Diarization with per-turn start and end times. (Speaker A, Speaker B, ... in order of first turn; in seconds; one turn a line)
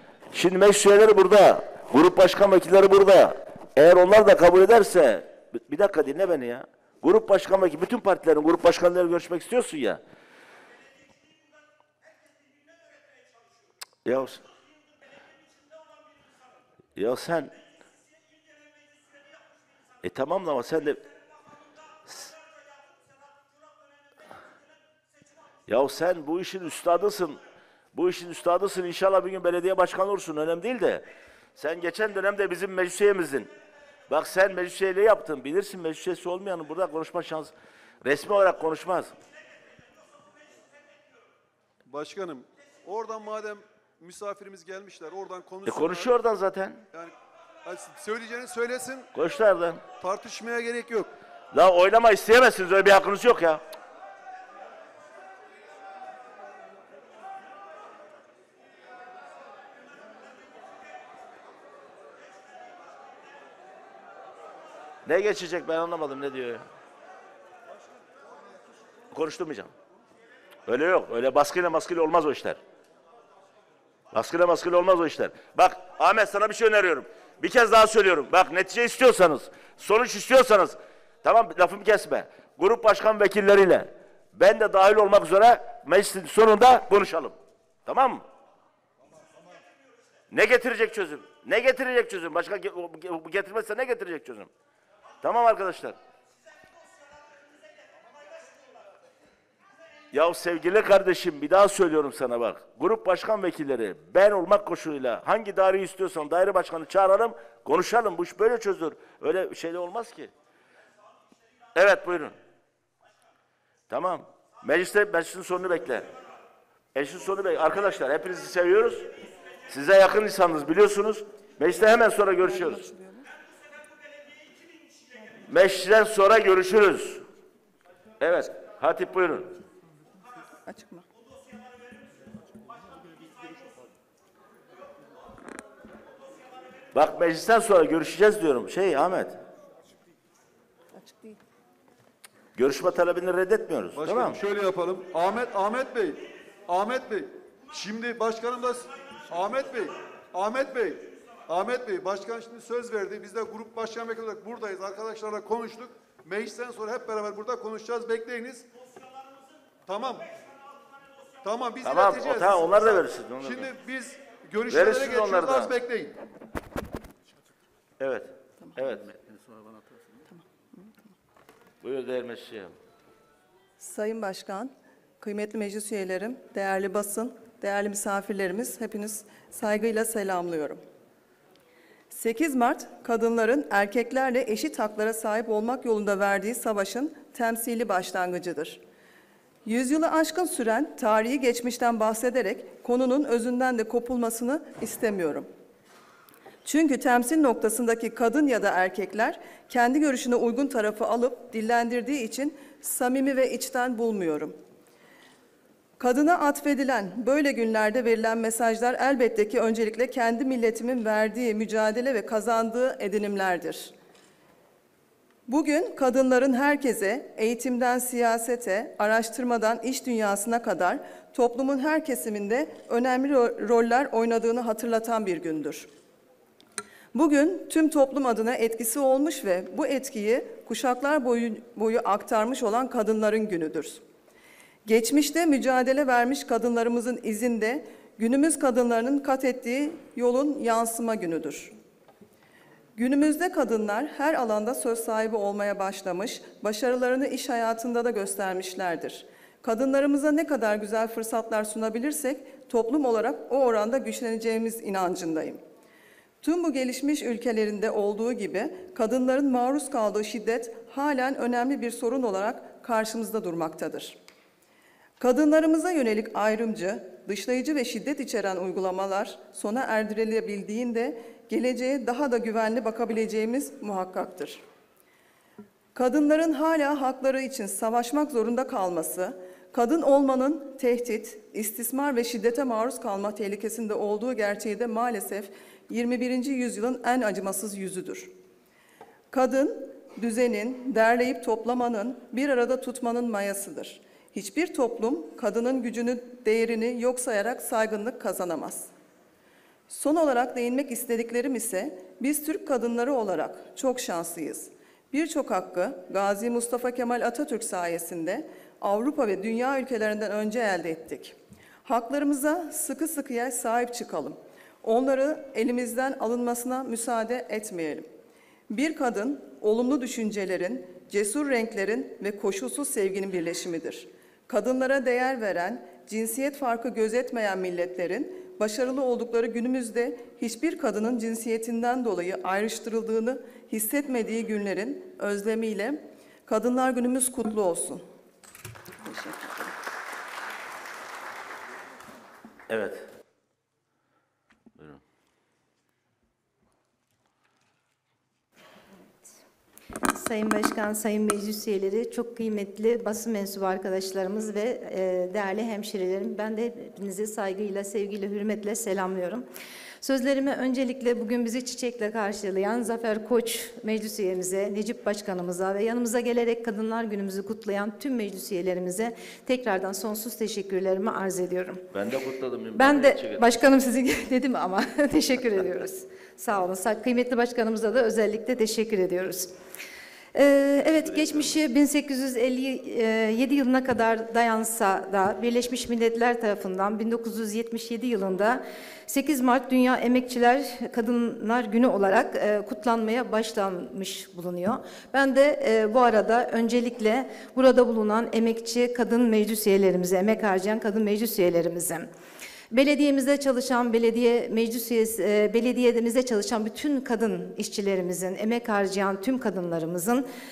Speaker A: 0.3-10.0
Speaker A: 14.0-14.4
Speaker A: 16.9-17.6
Speaker A: 20.0-21.0
Speaker A: 22.1-22.3
Speaker A: 25.7-27.4
Speaker A: 27.9-31.1
Speaker A: 31.6-33.5
Speaker A: 34.1-39.1
Speaker B: 41.9-46.1
Speaker A: 45.6-46.8
Speaker B: 46.9-49.1
Speaker A: 49.1-49.8
Speaker B: 50.0-51.1
Speaker A: 51.5-53.6
Speaker A: 65.0-66.6
Speaker A: 69.1-69.7
Speaker A: 70.6-72.6
Speaker A: 74.1-88.2
Speaker A: 90.3-94.5
Speaker A: 95.2-96.0
Speaker A: 100.1-110.3
Speaker A: 111.7-112.3
Speaker A: 113.9-116.1
Speaker A: 116.9-119.1
Speaker A: 119.7-122.8
Speaker C: 122.4-123.3
Speaker A: 125.4-127.2
Speaker A: 128.2-129.6
Speaker C: 130.7-131.1
Speaker A: 136.9-139.4
Speaker C: 140.9-141.4
Speaker A: 142.6-144.4
Speaker B: 143.9-158.7
Speaker B: 159.8-160.3
Speaker B: 161.4-166.2
Speaker A: 161.8-163.7
Speaker A: 164.7-165.8
Speaker A: 168.0-169.2
Speaker C: 170.3-170.9
Speaker A: 171.8-172.7
Speaker C: 173.8-180.8
Speaker C: 182.1-188.8
Speaker C: 189.6-195.5
Speaker C: 196.6-204.6
Speaker C: 206.0-213.9
Speaker C: 215.5-225.9
Speaker C: 227.1-234.0
Speaker C: 234.8-241.7
Speaker C: 242.9-255.6
Speaker C: 256.4-264.2
Speaker C: 265.2-274.6
Speaker C: 275.9-288.3
Speaker C: 289.3-298.9
Speaker C: 299.9-318.1
Speaker C: 318.7-338.0
Speaker C: 339.0-339.7
Speaker A: 342.7-343.1
Speaker D: 350.1-359.4
Speaker D: 360.0-371.9
Speaker A: 371.9-373.6
Speaker D: 372.7-379.5
Speaker D: 380.3-402.1
Speaker A: 381.0-381.6
Speaker D: 402.7-410.2